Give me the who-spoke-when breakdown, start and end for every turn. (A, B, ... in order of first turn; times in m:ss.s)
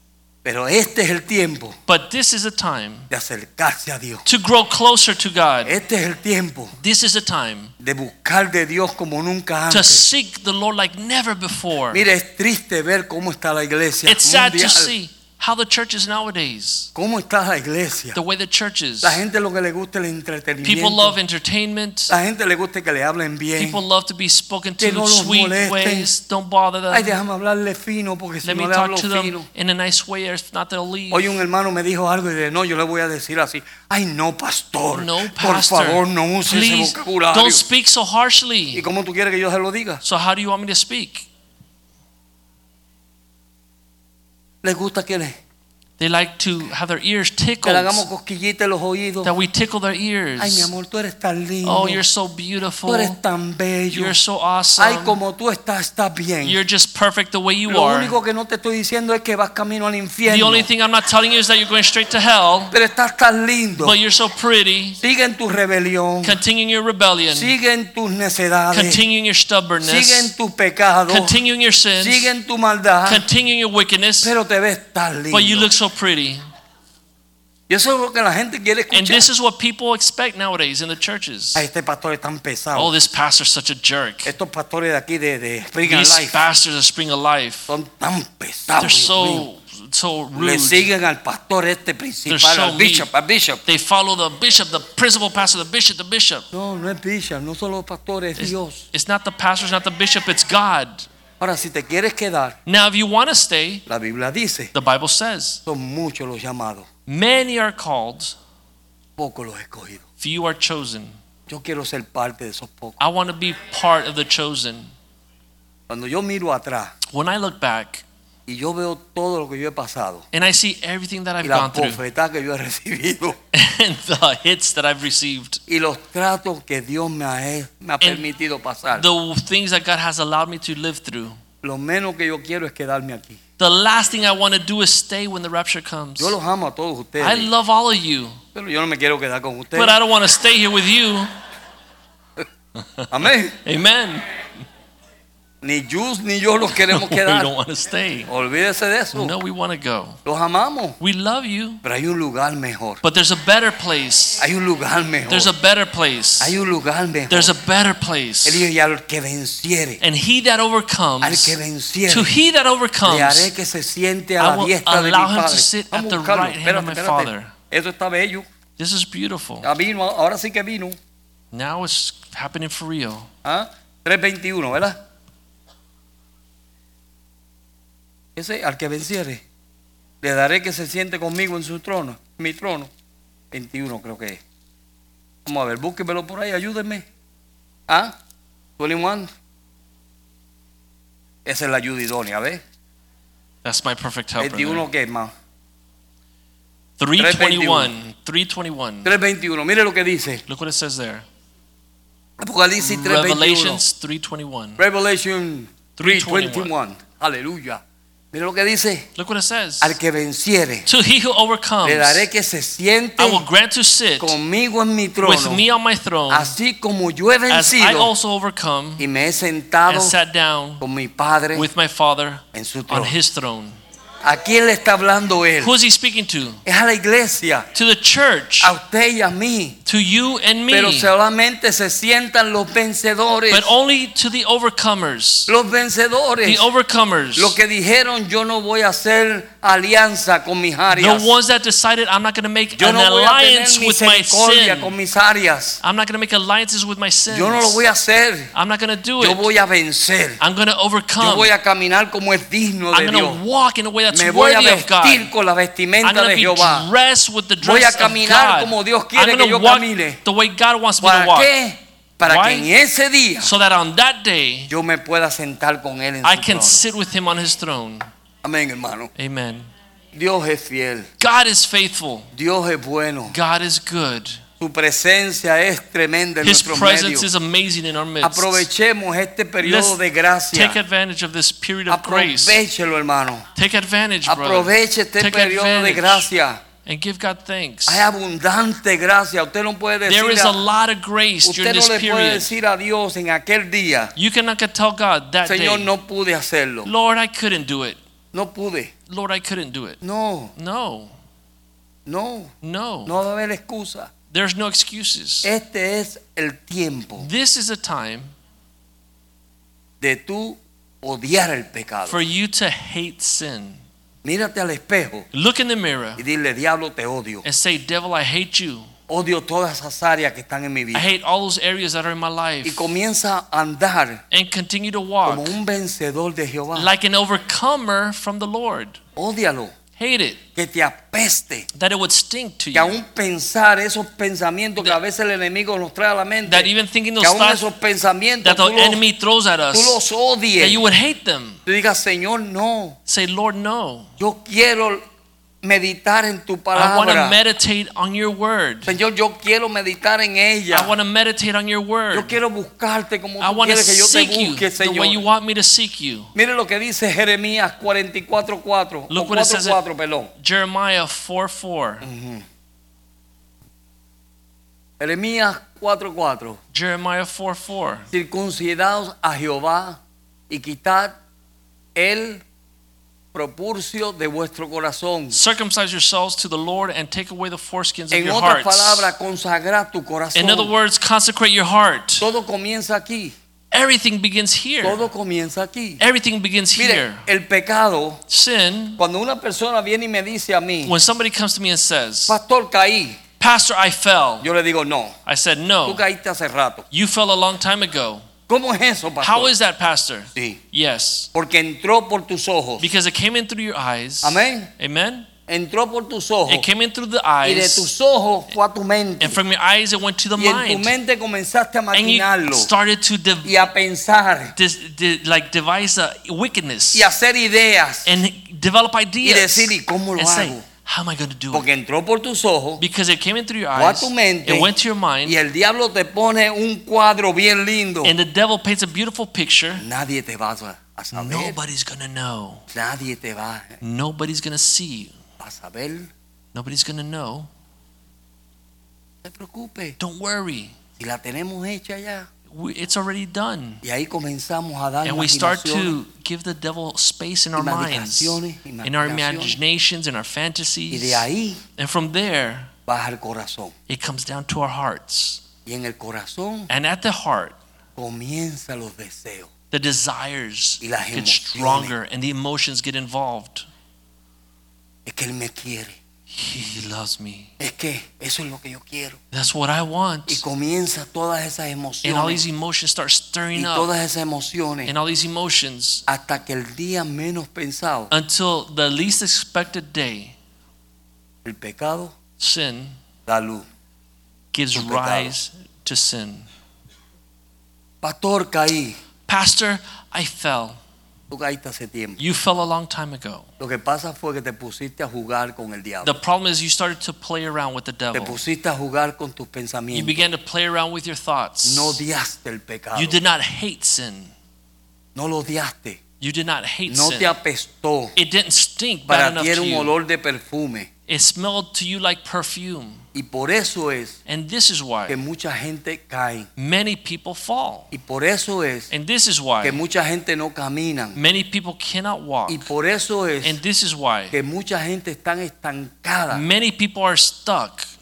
0:00.4-0:01.8 A
0:01.9-0:03.1 B
0:03.1-0:04.2 A
0:04.2-0:05.8 B
0:05.6-0:06.8 A
0:06.8-0:07.7 B
0:07.8-0:10.1 A
0:09.7-0:12.0 B
0:11.9-0:14.9 A
0:14.1-0:16.9 B
0:17.0-0:18.2 A
0:18.1-0:19.2 B
0:19.0-0:21.2 A
0:20.6-0:22.1 B
0:22.1-0:23.8 A
0:23.6-0:27.2 B
0:24.8-0:26.1 A
0:26.9-0:29.5 A
0:28.4-0:31.4 B
0:31.1-0:37.6 A
0:34.9-0:38.8 B
0:38.7-0:40.0 A
0:40.0-0:41.3 B
0:44.6-0:45.4 A
0:46.0-0:48.1 B
0:47.6-0:49.3 A
0:49.2-0:50.7 B
0:50.4-0:52.0 A
0:51.6-0:53.2 B
0:52.9-0:54.2 A
0:53.9-0:55.2 B
0:54.8-0:56.6 A
0:56.4-0:58.2 B
0:57.7-1:00.7 A
1:00.2-1:02.7 B
1:02.7-1:04.0 A
1:03.8-1:05.0 B
1:05.0-1:06.4 A
1:06.2-1:07.5 B
1:07.3-1:09.0 A
1:08.7-1:10.3 B
1:09.8-1:11.4 A
1:11.1-1:12.3 B
1:12.0-1:13.2 A
1:13.1-1:14.3 B
1:14.2-1:15.7 A
1:15.3-1:16.4 B
1:17.7-1:19.3 A
1:18.9-1:21.6 B
1:21.6-1:22.9 A
1:22.8-1:24.3 B
1:24.3-1:26.4 A
1:25.9-1:27.7 B
1:27.7-1:29.5 A
1:28.8-1:30.9 B
1:30.4-1:33.6 A
1:32.3-1:33.1 B
1:33.7-1:36.5 B
1:36.5-1:38.8 A
1:38.4-1:41.1 B
1:41.4-1:42.6 A
1:42.7-1:43.8 B
1:43.9-1:44.7 A
1:44.7-1:45.6 B
1:45.7-1:46.9 A
1:47.1-1:48.4 B
1:49.2-1:50.0 A
1:50.2-1:51.2 B
1:51.5-1:53.0 A
1:53.0-1:54.9 B
1:55.9-1:56.9 A
1:57.1-1:58.0 B
1:58.5-2:00.2 A
2:00.3-2:02.0 B
2:01.4-2:03.4 A
2:03.5-2:05.6 B
2:05.7-2:09.0 A
2:09.0-2:11.4 B
2:11.6-2:13.4 A
2:13.6-2:16.4 B
2:16.2-2:17.5 A
2:17.2-2:18.4 B
2:18.6-2:20.0 A
2:19.8-2:21.3 B
2:22.8-2:23.1 B
2:23.1-2:23.6 A
2:23.6-2:24.3 B
2:25.6-2:27.5 A
2:26.7-2:28.3 B
2:28.3-2:29.4 A
2:29.1-2:30.2 B
2:30.2-2:31.0 A
2:31.0-2:31.8 B
2:31.8-2:33.0 A
2:33.0-2:34.4 B
2:34.4-2:35.5 A
2:35.3-2:36.6 B
2:36.4-2:37.5 A
2:37.3-2:38.7 B
2:38.4-2:40.0 A
2:40.0-2:41.6 B
2:41.2-2:42.3 A
2:42.1-2:43.5 B
2:43.0-2:48.5 A
2:44.4-2:47.5 B
2:48.8-2:49.7 B
2:49.6-2:51.0 A
2:51.5-2:53.3 B
2:53.4-2:55.0 A
2:58.4-2:59.4 A
3:00.2-3:02.9 A
3:03.5-3:04.4 A
3:05.4-3:07.0 A
3:07.9-3:08.2 A
3:08.8-3:09.3 A
3:11.4-3:12.6 A
3:13.6-3:14.8 B
3:14.4-3:15.3 A
3:17.0-3:19.1 B
3:17.2-3:17.9 A
3:19.0-3:20.4 A
3:20.5-3:21.2 B
3:22.4-3:23.8 A
3:22.8-3:24.8 B
3:24.8-3:27.8 A
3:26.0-3:26.7 B
3:28.3-3:29.1 A
3:29.2-3:30.0 B
3:29.8-3:30.9 A
3:30.9-3:32.2 B
3:31.8-3:33.4 A
3:33.2-3:34.4 B
3:34.2-3:35.7 A
3:35.2-3:36.6 B
3:36.3-3:38.1 A
3:37.5-3:39.0 B
3:39.0-3:40.2 A
3:39.9-3:40.8 B
3:40.8-3:41.7 A
3:41.5-3:43.8 B
3:42.5-3:43.2 A
3:44.2-3:45.7 A
3:45.6-3:46.6 B
3:46.6-3:47.7 A
3:47.7-3:48.8 B
3:48.6-3:49.8 A
3:49.9-3:51.1 B
3:50.7-3:53.7 A
3:53.5-3:55.5 B
3:55.5-3:56.6 A
3:56.4-3:57.6 B
3:57.4-4:01.4 A
4:00.9-4:04.9 B
4:02.8-4:05.8 A
4:05.8-4:07.8 B
4:07.3-4:08.5 A
4:08.5-4:09.5 B
4:09.2-4:10.4 A
4:10.4-4:11.5 B
4:11.2-4:13.4 A
4:12.9-4:15.3 B
4:14.1-4:16.9 A
4:16.0-4:21.5 B
4:17.6-4:20.2 A
4:21.0-4:23.5 A
4:22.3-4:22.7 B
4:23.4-4:24.7 B
4:24.7-4:26.9 A
4:26.2-4:28.1 B
4:28.4-4:29.1 A
4:29.2-4:29.7 B
4:30.1-4:31.1 A
4:31.2-4:32.3 B
4:32.3-4:33.4 A
4:33.3-4:34.4 B
4:34.6-4:37.3 A
4:36.4-4:38.7 B
4:38.2-4:40.8 A
4:39.6-4:40.0 B
4:40.5-4:42.6 B
4:41.9-4:43.4 A
4:43.6-4:46.3 B
4:44.3-4:46.6 A
4:46.9-4:48.1 B
4:47.9-4:50.6 A
4:50.1-4:52.5 B
4:51.4-4:54.1 A
4:54.2-4:55.9 B
4:55.5-4:56.9 A
4:56.8-4:58.0 B
4:58.3-4:58.9 A
4:59.1-5:00.0 B
5:00.0-5:00.5 A
5:00.6-5:01.1 B
5:02.1-5:02.5 A
5:02.6-5:03.1 B
5:03.1-5:04.1 A
5:04.3-5:05.5 B
5:05.4-5:07.3 A
5:07.2-5:08.3 B
5:10.0-5:12.2 A
5:12.1-5:13.8 B
5:14.2-5:15.3 A
5:15.3-5:16.2 B
5:16.2-5:17.4 A
5:17.4-5:18.9 B
5:19.1-5:21.1 A
5:20.9-5:22.9 B
5:22.6-5:24.2 A
5:24.3-5:25.6 B
5:25.2-5:26.9 A
5:26.8-5:29.0 B
5:29.2-5:29.7 A
5:30.0-5:30.4 B
5:30.6-5:31.7 A
5:31.7-5:33.0 B
5:32.7-5:39.0 A
5:36.5-5:37.6 B
5:38.4-5:40.0 B
5:39.7-5:40.8 A
5:40.6-5:41.6 B
5:41.7-5:43.0 A
5:43.1-5:44.1 B
5:44.2-5:45.0 A
5:45.6-5:47.4 A
5:46.8-5:49.0 B
5:48.9-5:50.9 A
5:50.7-5:52.4 B
5:52.1-5:55.2 A
5:53.4-5:56.3 B
5:56.4-6:00.3 A
5:59.1-5:59.8 B
6:00.4-6:02.1 B
6:02.0-6:02.4 A
6:05.0-6:06.6 A
6:06.7-6:08.1 B
6:08.1-6:10.0 A
6:10.5-6:11.2 A
6:12.0-6:12.4 A
6:13.3-6:15.4 A
6:15.3-6:19.1 B
6:18.1-6:20.7 A
6:20.4-6:22.3 B
6:22.2-6:23.3 A
6:23.7-6:25.0 B
6:24.8-6:26.0 A
6:26.0-6:27.2 B
6:26.8-6:28.2 A
6:28.3-6:29.0 B
6:29.0-6:30.9 A
6:30.8-6:32.4 B
6:32.3-6:33.2 A
6:33.4-6:34.5 B
6:34.4-6:35.2 A
6:35.3-6:36.0 B
6:35.8-6:36.9 A
6:36.9-6:38.2 B
6:38.5-6:39.5 A
6:39.2-6:41.3 B
6:40.3-6:40.6 A
6:41.4-6:42.9 A
6:42.8-6:45.3 B
6:44.2-6:44.7 A
6:45.5-6:46.7 A
6:46.5-6:47.9 B
6:47.4-6:49.4 A
6:49.2-6:50.9 B
6:50.4-6:52.7 A
6:51.9-6:53.7 B
6:53.4-6:54.6 A
6:54.6-6:57.1 B
6:56.9-6:58.2 A
6:58.0-7:01.7 B
6:59.2-7:00.6 A
7:01.5-7:02.8 A
7:02.8-7:05.4 B
7:03.8-7:04.7 A
7:05.2-7:08.1 A
7:08.0-7:09.8 B
7:09.8-7:11.6 A
7:11.1-7:12.6 B
7:12.7-7:13.8 A
7:13.8-7:15.1 B
7:15.4-7:16.1 A
7:16.5-7:17.5 B
7:19.2-7:20.0 A
7:20.0-7:20.7 B
7:21.0-7:22.3 A
7:22.5-7:23.8 B
7:23.8-7:26.0 A
7:25.0-7:31.3 B
7:27.6-7:29.6 A
7:30.9-7:31.6 A
7:31.8-7:32.7 B
7:32.9-7:33.7 A
7:33.9-7:35.4 B
7:35.7-7:36.7 A
7:36.7-7:37.6 B
7:38.0-7:39.5 A
7:39.7-7:43.7 B
7:40.8-7:41.9 A
7:45.1-7:46.0 A
7:46.3-7:47.5 B
7:47.6-7:49.2 A
7:49.3-7:50.4 B
7:50.3-7:52.4 A
7:52.0-7:53.9 B
7:53.6-7:54.9 A
7:54.9-7:56.0 B
7:56.1-7:58.1 A
7:58.1-8:00.4 B
8:01.4-8:02.2 A
8:02.4-8:03.0 B
8:03.3-8:03.7 A
8:04.5-8:06.5 B
8:04.7-8:05.4 A
8:08.0-8:09.0 A
8:09.3-8:10.8 B
8:11.3-8:12.2 A
8:12.2-8:13.5 B
8:13.6-8:16.2 A
8:16.0-8:18.4 B
8:18.1-8:20.2 A
8:19.9-8:22.0 B
8:21.6-8:23.2 A
8:23.0-8:24.3 B
8:25.2-8:26.0 A
8:26.2-8:27.3 B
8:26.9-8:28.2 A
8:28.2-8:29.9 B
8:29.1-8:30.9 A
8:31.1-8:33.0 B
8:33.1-8:34.2 A
8:34.3-8:35.2 B
8:35.1-8:36.5 A
8:36.6-8:37.9 B
8:37.9-8:38.9 A
8:38.9-8:39.8 B
8:39.6-8:41.2 A
8:41.2-8:42.7 B
8:42.5-8:43.6 A
8:43.4-8:44.4 B
8:44.3-8:46.4 A
8:46.3-8:47.9 B